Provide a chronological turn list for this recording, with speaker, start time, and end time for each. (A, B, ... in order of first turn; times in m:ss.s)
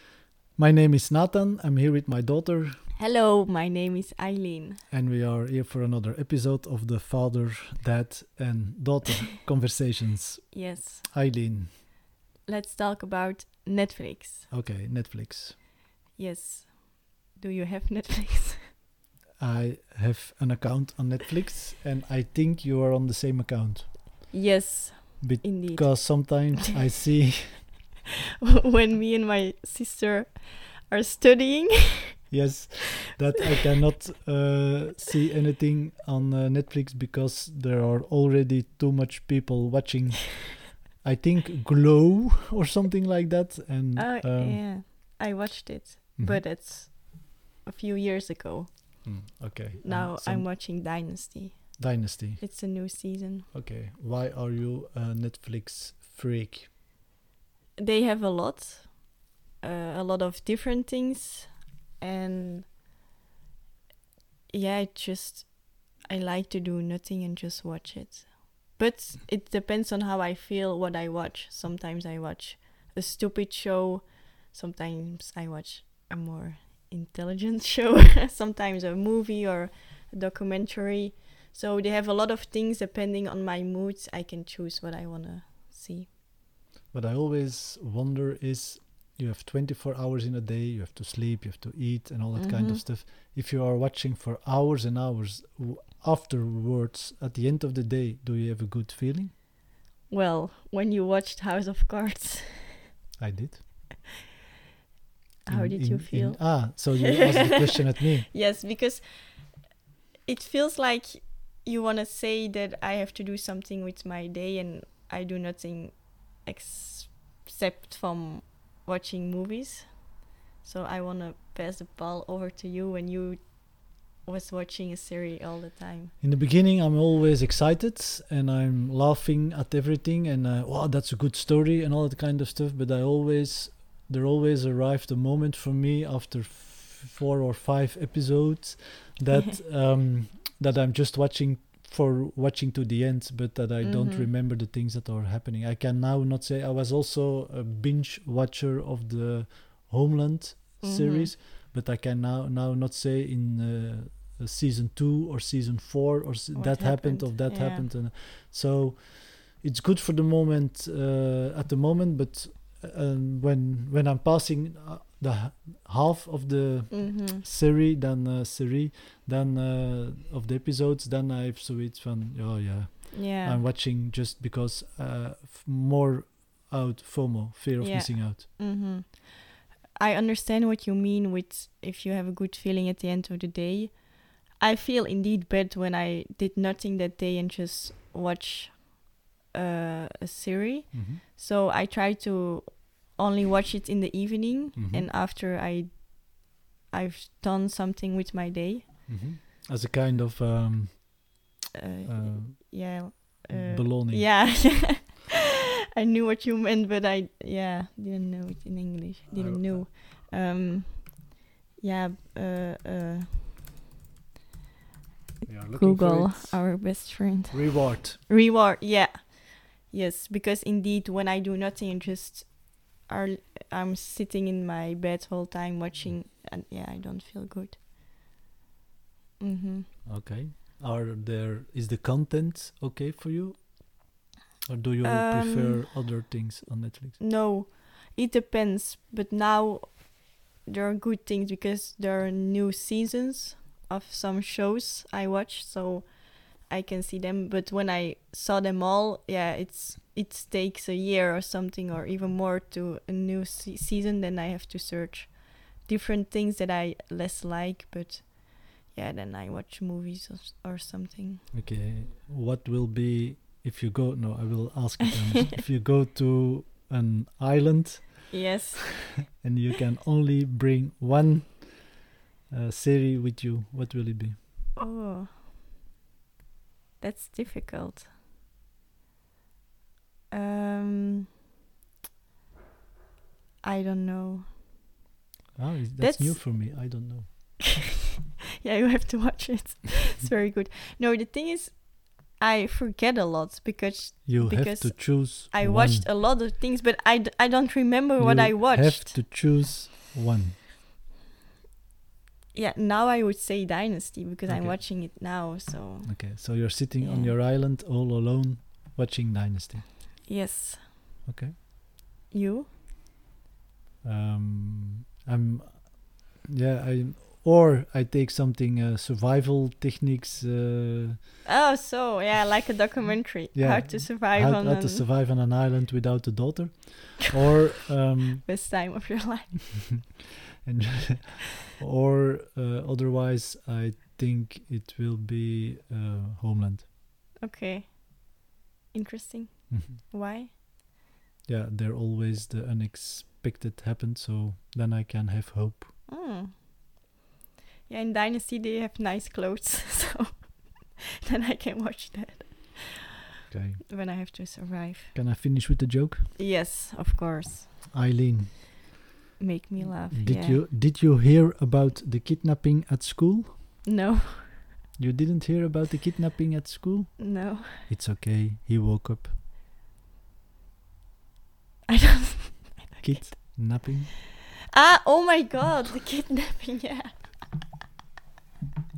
0:00.6-0:02.8 A
0:02.9-0:04.8 B
0:04.9-0:11.7 A
0:10.5-0:11.1 B
0:12.4-0:14.5 B
0:14.5-0:15.5 A
0:16.2-0:18.7 B
0:19.4-0:24.3 A
0:24.3-0:26.8 B
0:25.2-0:27.7 A
0:28.4-0:32.2 B
0:32.3-0:44.6 A
0:44.0-0:49.2 B
0:49.0-0:51.0 A
0:49.8-0:53.5 B
0:51.8-0:53.0 A
0:53.5-0:56.7 A
0:57.8-1:02.7 B
1:04.5-1:26.1 B
1:26.9-1:39.3 A
1:32.4-1:32.8 B
1:40.1-1:42.9 B
1:43.2-1:43.6 A
1:45.4-1:47.8 B
1:45.5-1:48.3 A
1:48.3-1:49.6 B
1:50.2-2:06.1 B
2:06.2-2:58.4 A
2:23.8-2:24.3 B
2:30.8-2:31.3 B
2:36.5-2:37.9 B
2:46.9-2:47.4 B
2:53.1-2:53.6 B
2:57.8-3:19.3 B
3:10.9-3:11.2 A
3:14.8-3:15.1 A
3:19.1-3:21.4 A
3:21.7-3:25.4 B
3:22.0-3:24.8 A
3:25.9-3:33.4 B
3:29.3-3:29.9 A
3:35.4-3:38.2 A
3:35.7-3:47.8 B
3:49.4-3:50.0 B
3:50.0-3:57.2 A
3:55.0-3:55.9 B
3:57.2-4:21.5 B
4:21.5-4:28.4 A
4:28.3-4:29.4 B
4:29.3-4:34.4 A
4:34.8-4:35.3 B
4:37.0-4:38.1 B
4:40.3-4:41.3 B
4:43.6-4:44.5 B
4:45.6-4:47.6 A
4:46.0-4:46.6 B
4:48.6-4:59.2 B
4:54.2-4:56.1 A
4:58.2-5:00.6 A
5:02.5-5:07.4 B
5:04.5-5:05.4 A
5:06.0-5:09.9 A
5:10.2-5:10.9 B
5:11.3-5:11.5 A
5:12.3-5:12.7 B
5:14.0-5:21.2 A
5:21.4-5:25.0 B
5:23.5-5:28.5 A
5:28.4-5:30.1 B
5:30.6-5:36.8 A
5:37.4-5:40.5 B
5:39.7-5:40.0 A
5:41.4-5:45.9 A
5:46.1-5:46.6 B
5:47.9-5:53.1 B
5:53.5-5:53.8 A
5:53.9-5:55.2 B
5:55.1-5:56.3 A
5:56.4-5:57.7 B
5:57.9-5:58.7 A
5:59.4-6:00.6 B
5:59.8-6:03.8 A
6:03.8-6:04.6 B
6:05.0-6:09.3 A
6:07.2-6:07.9 B
6:11.9-6:13.6 B
6:13.0-6:14.1 A
6:14.7-6:17.4 B